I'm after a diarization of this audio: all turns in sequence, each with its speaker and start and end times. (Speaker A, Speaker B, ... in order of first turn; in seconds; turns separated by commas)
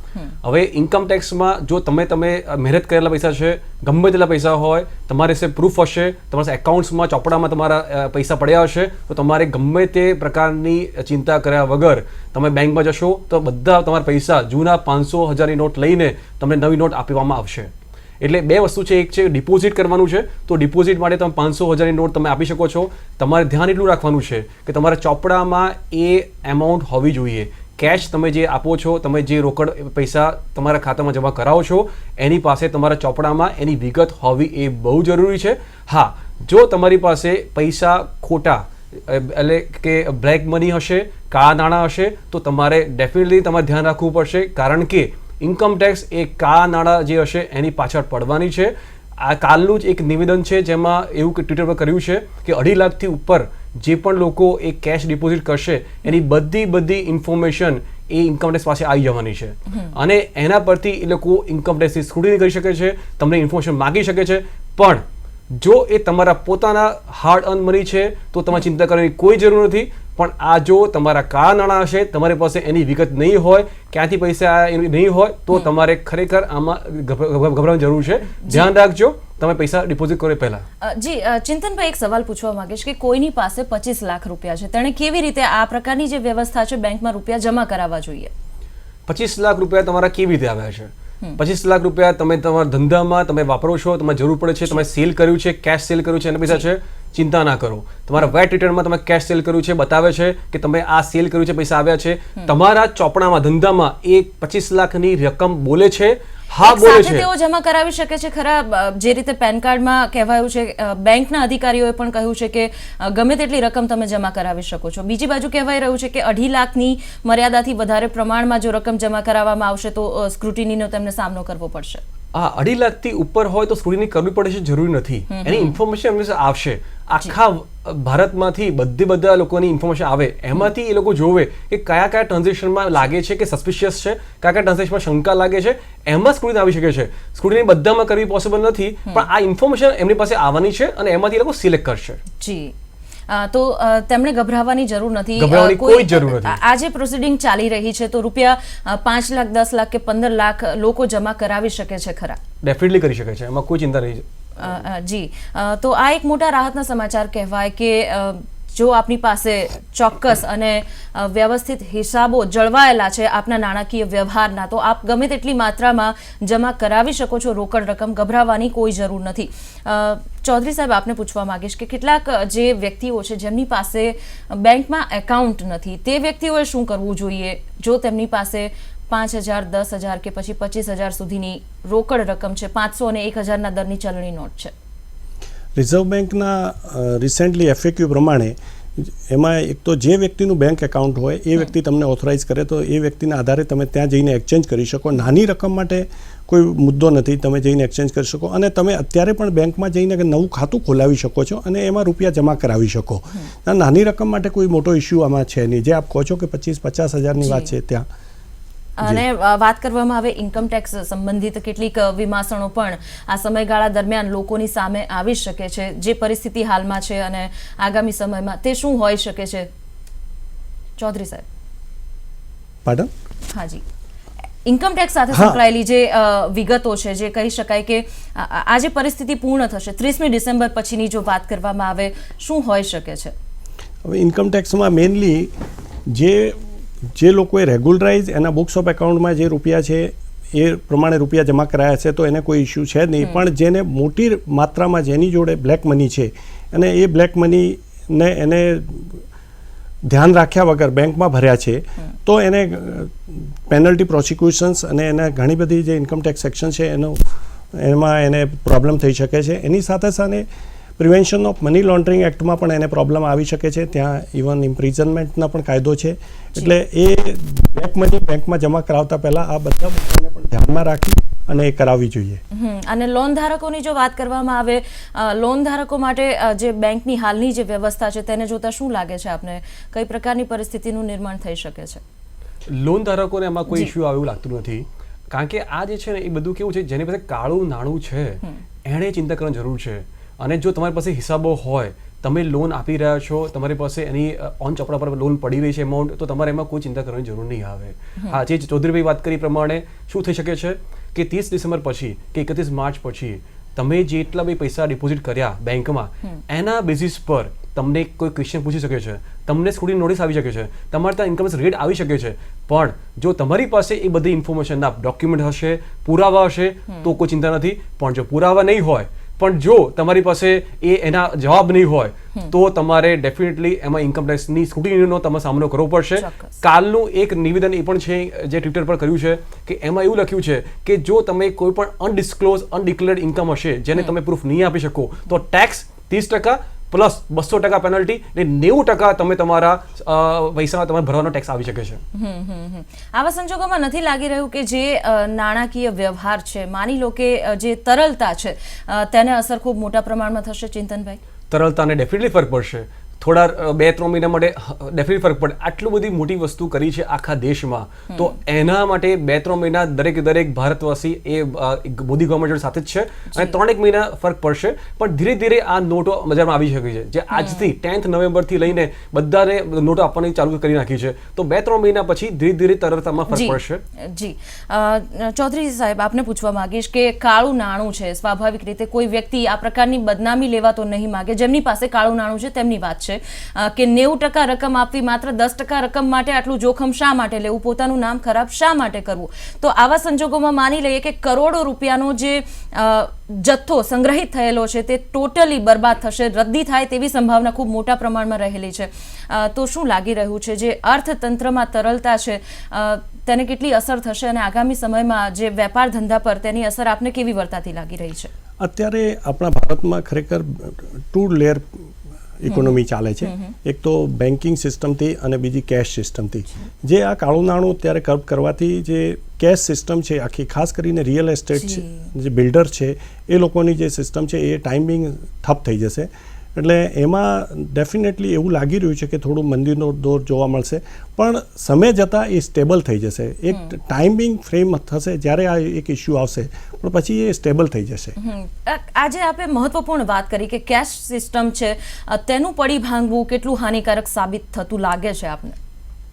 Speaker A: 0.4-80.7, Speaker B: 59.7-60.0, Speaker B: 80.8-88.3, Speaker A: 89.1-107.3, Speaker B: 106.6-122.0, Speaker A: 122.3-142.2, Speaker B: 125.3-125.8, Speaker B: 142.4-142.7, Speaker B: 143.3-152.4, Speaker A: 145.4-146.6, Speaker A: 152.6-154.2, Speaker B: 154.6-184.7, Speaker C: 185.8-208.1, Speaker B: 207.4-207.7, Speaker B: 209.0-219.7, Speaker B: 221.0-221.4, Speaker C: 222.8-223.1, Speaker B: 223.5-223.8, Speaker B: 224.7-233.3, Speaker C: 225.3-225.6, Speaker C: 234.0-235.5, Speaker C: 236.1-236.6, Speaker C: 237.1-249.2, Speaker C: 250.1-260.5, Speaker C: 261.0-272.4, Speaker B: 272.5-282.0, Speaker A: 282.7-342.0, Speaker B: 283.7-283.9, Speaker B: 326.2-326.6, Speaker B: 342.1-351.2, Speaker A: 351.5-373.8, Speaker B: 367.3-367.7, Speaker B: 373.3-408.3, Speaker C: 408.6-411.8, Speaker C: 412.4-438.1, Speaker B: 412.5-413.5, Speaker B: 421.6-422.1, Speaker B: 433.5-433.7, Speaker B: 438.2-445.6